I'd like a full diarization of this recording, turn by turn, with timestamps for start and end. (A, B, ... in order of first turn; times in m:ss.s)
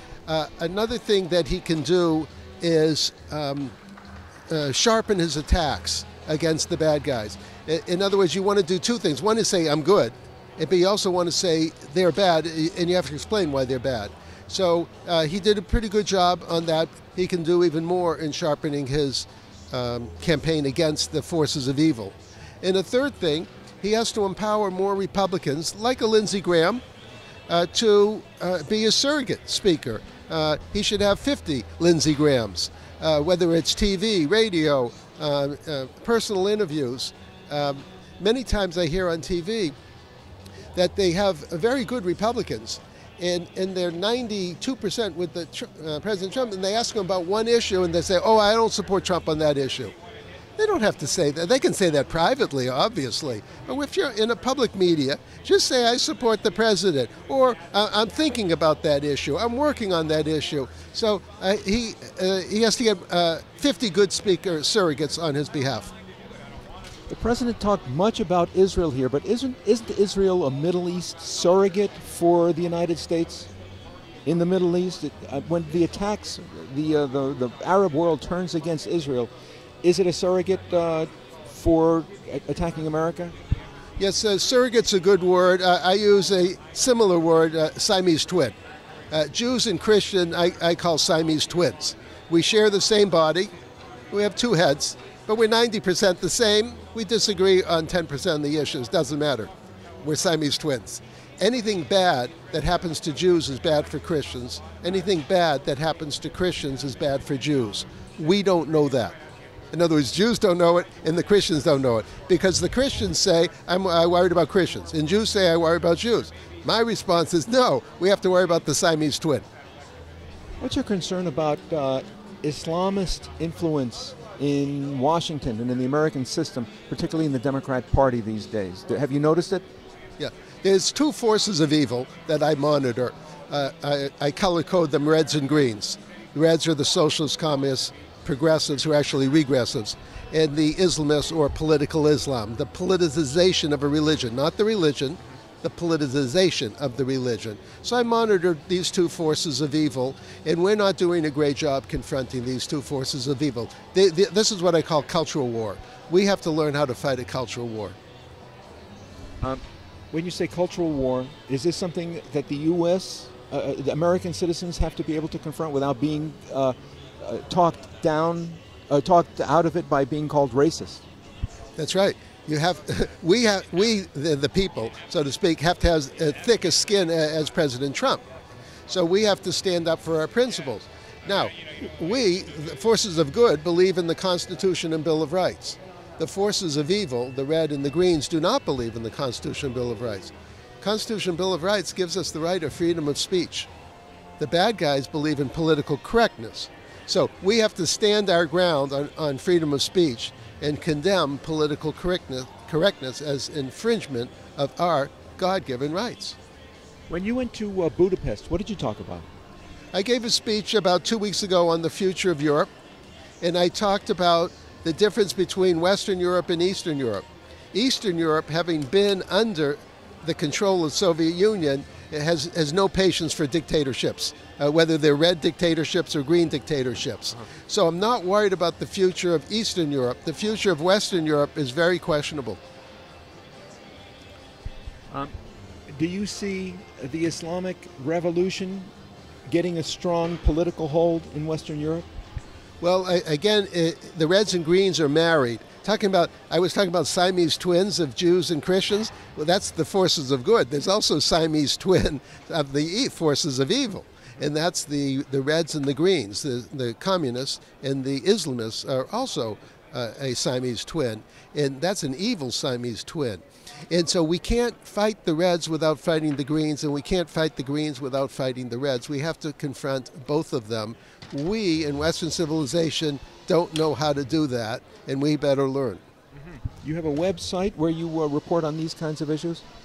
0:00.3-0:03.7 A
0:04.5-0:26.8 A
0:27.5-0:39.7 A
0:40.7-0:49.9 A
0:50.6-1:05.9 A
1:07.1-1:13.5 B
1:14.2-1:19.3 B
1:19.8-1:23.3 B
1:24.0-1:28.5 A
1:29.1-1:33.5 A
1:34.1-1:39.5 A
1:40.0-1:49.1 A
1:49.7-1:59.4 A
2:00.6-2:09.6 B
2:10.2-2:38.0 A
2:39.4-2:51.0 B
2:51.8-2:58.2 A
2:58.9-3:13.7 A
3:14.4-3:26.4 A
3:27.1-3:29.3 B
3:29.9-3:32.7 A
3:33.4-3:52.6 A
3:55.9-3:58.9 B
3:59.5-4:02.0 B
4:02.8-4:36.0 A
4:36.8-4:39.6 B